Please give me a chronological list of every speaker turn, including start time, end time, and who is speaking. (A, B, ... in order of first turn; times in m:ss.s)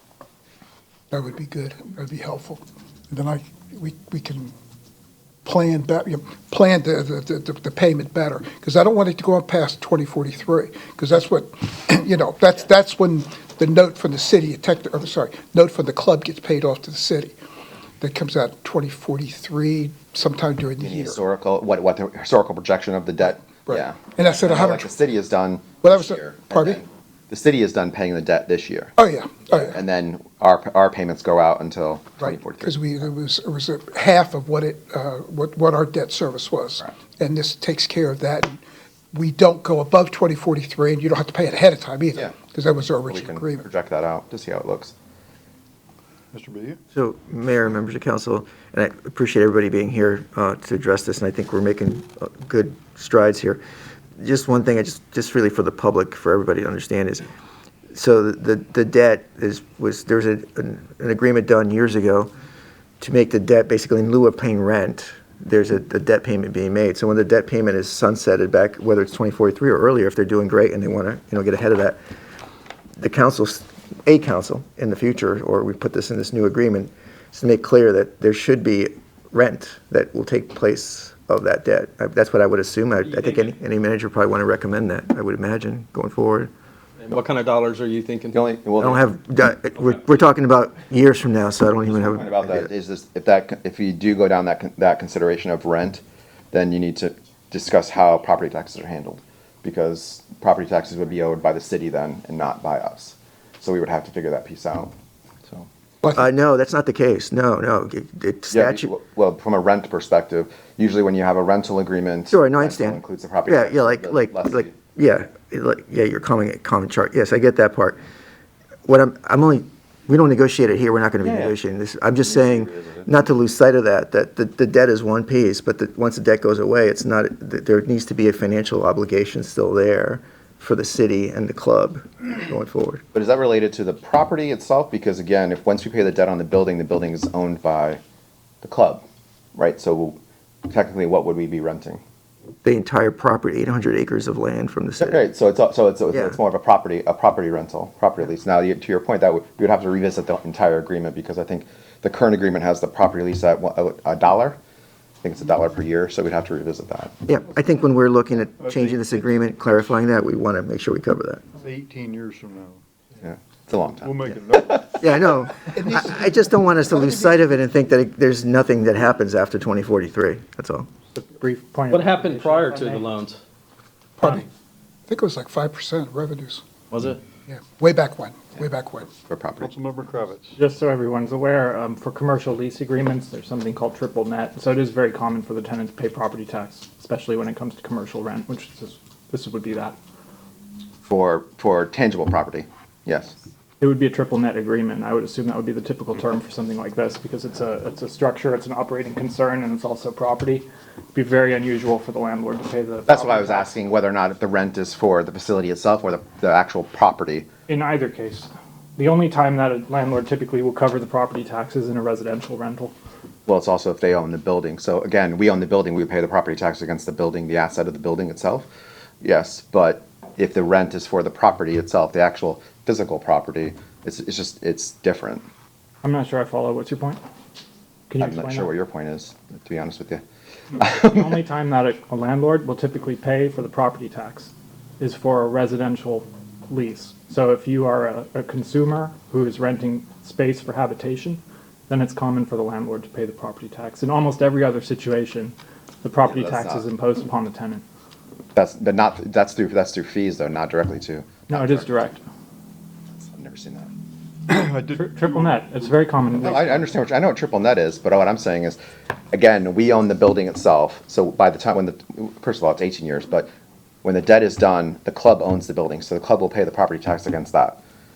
0:01.1-0:04.5 A
0:05.4-0:17.4 A
0:18.0-0:21.2 A
0:20.8-0:28.9 B
0:23.7-0:24.9 A
0:25.8-0:26.8 A
0:29.0-0:29.8 A
0:29.6-0:33.1 B
0:32.2-0:38.6 A
0:39.1-0:43.7 A
0:42.2-0:44.9 B
0:46.3-0:46.8 C
0:46.9-0:53.6 D
0:54.2-0:57.3 D
0:57.9-1:02.3 D
1:03.0-1:12.0 D
1:13.0-1:26.5 D
1:23.1-1:23.5 E
1:27.0-1:28.4 E
1:28.3-1:29.0 B
1:28.8-1:32.7 D
1:31.9-1:44.9 B
1:46.1-1:48.9 D
1:48.5-1:54.7 B
1:52.3-1:58.0 D
1:58.9-2:13.0 D
2:02.3-2:03.1 B
2:13.1-2:18.0 B
2:18.6-2:19.0 B
2:19.6-2:22.0 B
2:22.6-2:25.2 D
2:25.0-2:34.6 B
2:35.2-2:37.1 B
2:37.3-2:41.4 D
2:38.7-2:39.0 C
2:41.6-2:42.8 C
2:43.2-2:44.9 B
2:44.0-2:44.6 C
2:45.0-2:50.9 D
2:45.7-2:46.3 A
2:51.2-2:53.1 F
2:51.9-2:53.4 E
2:54.2-2:54.5 A
2:55.1-2:56.6 A
2:56.9-2:57.2 E
2:57.5-2:59.1 A
2:59.3-2:59.7 B
2:59.6-3:00.6 C
3:00.6-3:10.0 F
3:11.1-3:13.4 B
3:13.8-3:23.7 F
3:23.1-3:27.5 B
3:27.7-3:32.9 F
3:33.5-3:38.7 B
3:39.2-3:45.4 B
3:46.0-3:47.2 F
3:48.1-3:48.7 F
3:48.2-3:50.2 B
3:50.8-3:51.4 B
3:50.9-4:07.8 F
4:06.2-4:06.9 B
4:08.6-4:12.1 B
4:11.5-4:12.2 F
4:13.2-4:13.9 B
4:14.5-4:15.6 C
4:15.0-4:16.8 F
4:16.4-4:18.8 B
4:19.3-4:23.5 B
4:24.0-4:27.8 B